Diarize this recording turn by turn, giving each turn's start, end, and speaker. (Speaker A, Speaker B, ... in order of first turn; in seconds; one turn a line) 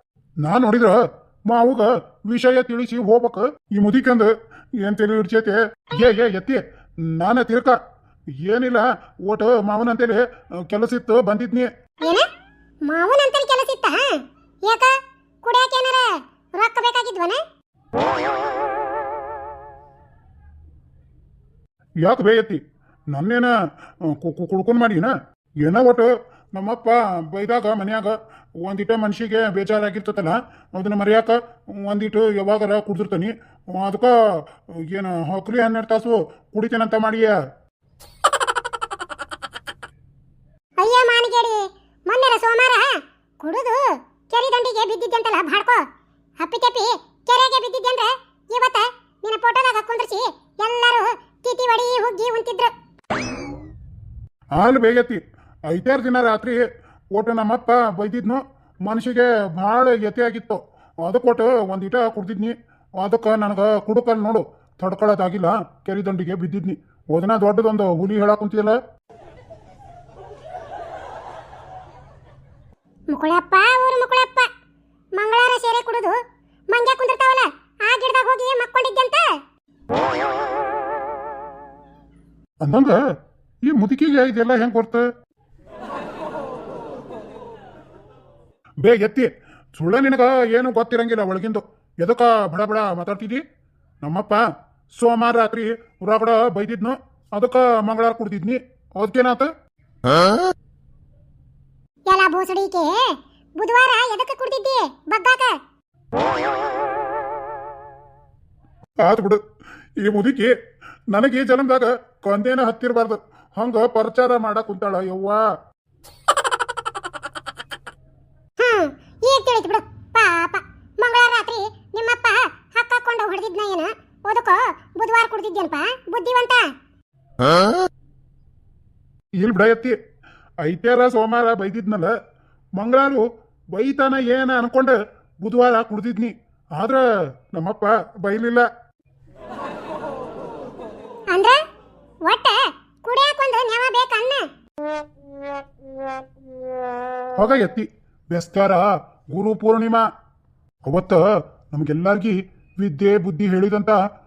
Speaker A: 0.4-7.8
Speaker A: 8.4-11.7
Speaker B: 12.0-12.3
Speaker B: 12.8-17.4
Speaker A: 22.0-23.5
Speaker A: 24.0-25.1
Speaker A: 25.6-34.1
Speaker A: 34.9-37.3
Speaker B: 40.8-45.8
Speaker B: 46.4-52.7
Speaker A: 54.5-56.6
Speaker A: 57.1-68.8
Speaker B: 73.1-74.5
Speaker B: 75.2-76.2
Speaker B: 76.7-79.4
Speaker A: 82.6-83.0
Speaker A: 83.7-85.0
Speaker A: 88.8-93.4
Speaker A: 94.0-94.4
Speaker A: 95.0-99.5
Speaker B: 102.1-105.6
Speaker A: 109.0-109.4
Speaker A: 110.0-110.5
Speaker A: 111.1-115.4
Speaker B: 118.6-126.7
Speaker A: 129.4-130.0
Speaker A: 130.6-132.1
Speaker A: 132.8-137.0
Speaker A: 137.5-138.7
Speaker B: 141.3-141.6
Speaker B: 142.2-144.5
Speaker A: 147.4-150.0
Speaker A: 150.8-154.0